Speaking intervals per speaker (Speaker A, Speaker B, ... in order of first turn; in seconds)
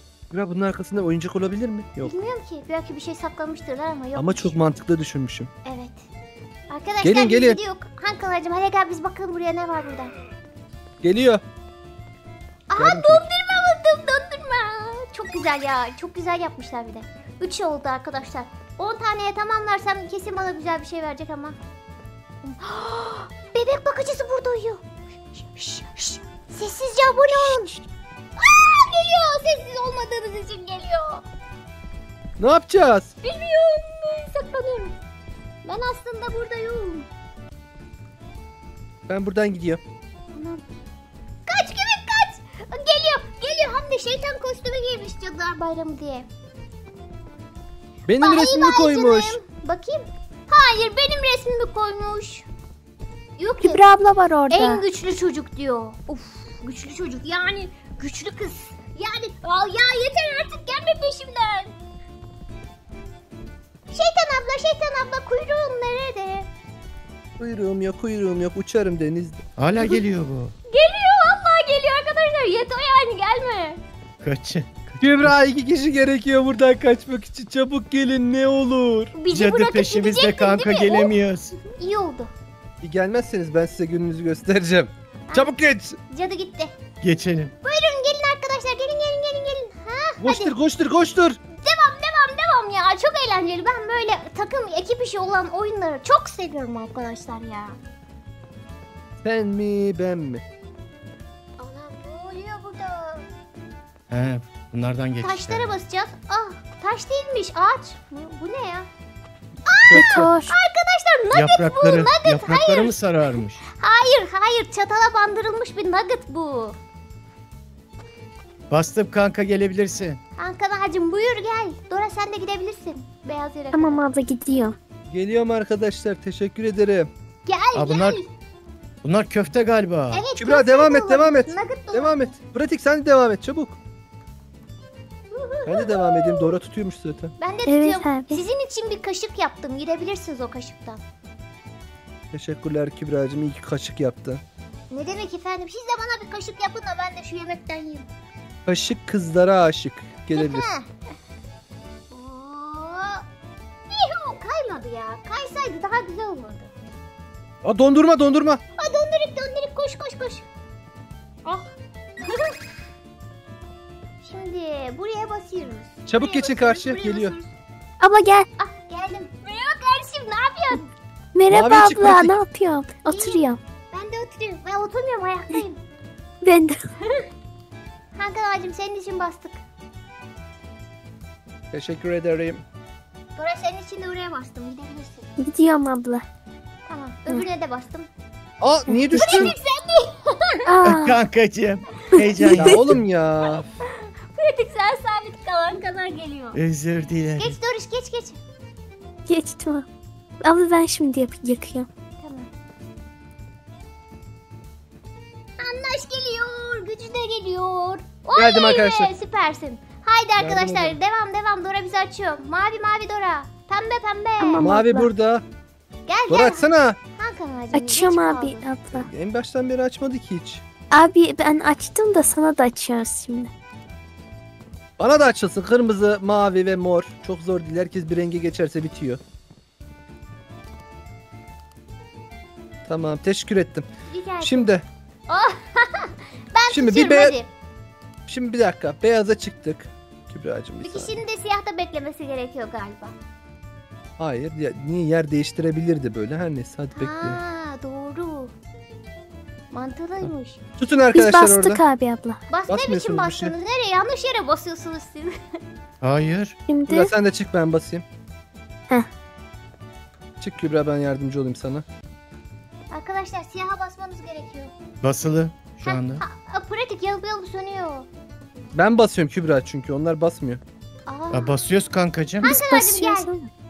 Speaker A: 0.3-2.1, 4.2-5.5, 7.0-7.6, 11.0-11.4, 12.8-13.3, 32.4-33.1, 39.1-39.8, 48.1-49.4, 67.4-69.4, 75.0-79.2, 82.8-86.0, 90.2-91.4, 99.2-100.4, 109.8-110.3, 125.1-127.1, 130.4-133.8, 135.7-137.3, 142.3-144.4, 148.7-150.7, 157.6-158.6, 166.1-167.4, 171.5-172.4, 181.7-182.6, 188.6-189.5, 192.5-193.7, 208.4-209.1, 210.4-211.0, 214.6-215.4, 216.3-217.0, 218.9-220.6, 225.0-229.2, 232.9-233.9, 234.4-234.8, 236.7-237.4, 238.3-241.2, 244.2-247.4, 250.8-251.8, 252.7-253.6, 256.9-258.0, 260.4-261.9, 268.7-270.6
Speaker B: 2.0-4.5, 5.7-6.1, 6.7-10.1, 12.7-21.6, 22.4-24.8, 25.4-27.8, 28.4-31.2, 33.2-35.0, 35.6-37.1, 40.3-40.6, 41.5-46.3, 48.2-52.5, 53.4-53.8, 54.5-61.8, 63.9-66.5, 69.8-70.0, 70.7-73.8, 79.1-82.3, 85.3-85.5, 86.1-86.7, 87.6-90.5, 91.5-97.8, 101.6-103.3, 105.2-108.9, 109.7-113.0, 113.6-116.8, 120.4-124.1, 127.5-128.3, 130.1-132.3, 135.3-136.5, 137.4-141.0, 144.9-148.1, 150.3-150.9, 152.1-153.2, 153.9-156.7, 158.8-160.4, 161.4-161.7, 162.3-162.5, 164.2-167.5, 168.6-170.9, 173.1-175.8, 178.2-179.6, 183.4-185.3, 186.9-188.1, 189.1-190.7, 193.5-196.6, 197.4-198.4, 202.2-202.5, 205.6-214.7, 216.1-218.7, 234.1-234.7, 235.3-237.5, 240.8-243.2, 247.0-248.5, 249.7-250.6, 252.5-255.4, 262.9-264.7, 265.8-268.1, 271.1-271.6, 272.4-273.3
Speaker C: 53.6-54.8, 109.9-110.5, 123.7-124.8, 137.7-138.4, 168.0-168.5, 171.3-173.6, 176.4-176.8, 185.4-186.2, 190.7-191.2, 192.4-192.8, 199.3-199.9, 200.4-201.9, 214.4-215.1, 217.7-219.1, 220.9-223.5, 251.1-252.4, 256.7-257.1, 272.4-273.5
Speaker D: 69.6-70.5, 74.2-75.3, 79.3-81.5, 87.0-87.5, 104.1-105.8, 111.3-113.6, 118.7-120.2, 127.7-128.2, 129.0-130.2, 190.8-193.0, 196.5-197.6, 256.0-256.6, 265.0-266.2, 271.3-272.6